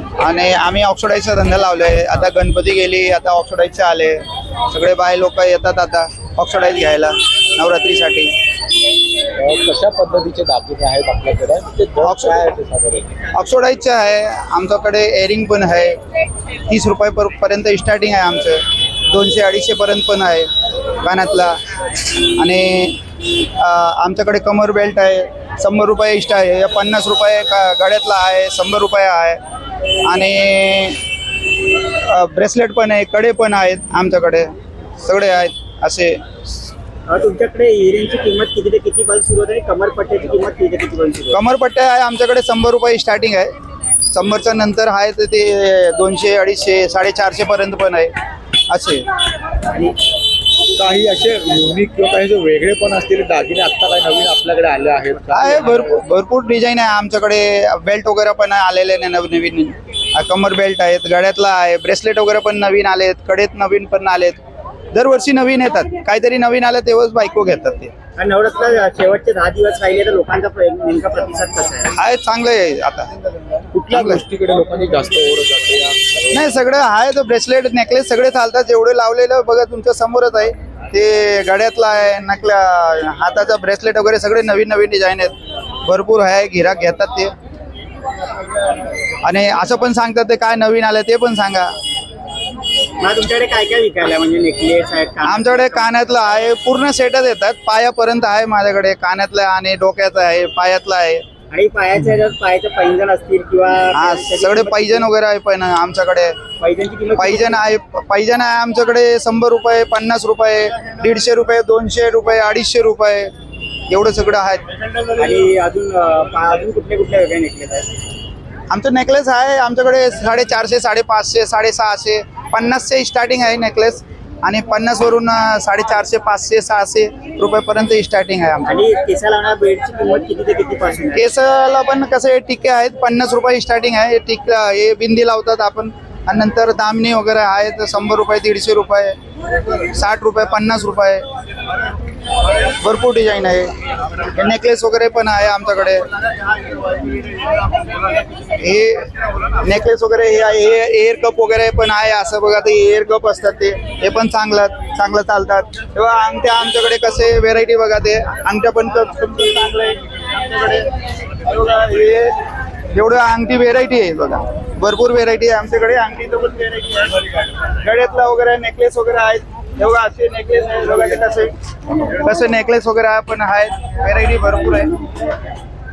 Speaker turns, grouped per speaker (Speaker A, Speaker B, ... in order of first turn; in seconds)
Speaker A: 0.2-8.3, 12.0-12.4, 13.3-16.0, 16.7-20.5, 21.0-29.4, 30.0-31.0, 31.8-34.5, 35.0-36.6, 41.3-43.5, 44.1-48.1, 48.7-49.0, 55.3-64.4, 64.9-67.9, 71.9-73.1, 73.9-74.2, 76.3-85.3, 85.8-87.3, 89.2-91.8, 95.2-101.2, 103.9-106.3, 107.2-113.3, 113.9-114.6, 118.7-128.8, 131.1-139.2, 139.8-141.2, 142.7-146.1, 148.5-162.4, 162.9-174.9
Speaker B: 9.4-13.1, 50.7-56.0, 73.7-76.4
Speaker C: 37.1-41.4, 68.2-71.9, 93.0-95.8, 101.5-105.1, 106.6-107.6, 115.0-117.9, 128.7-131.2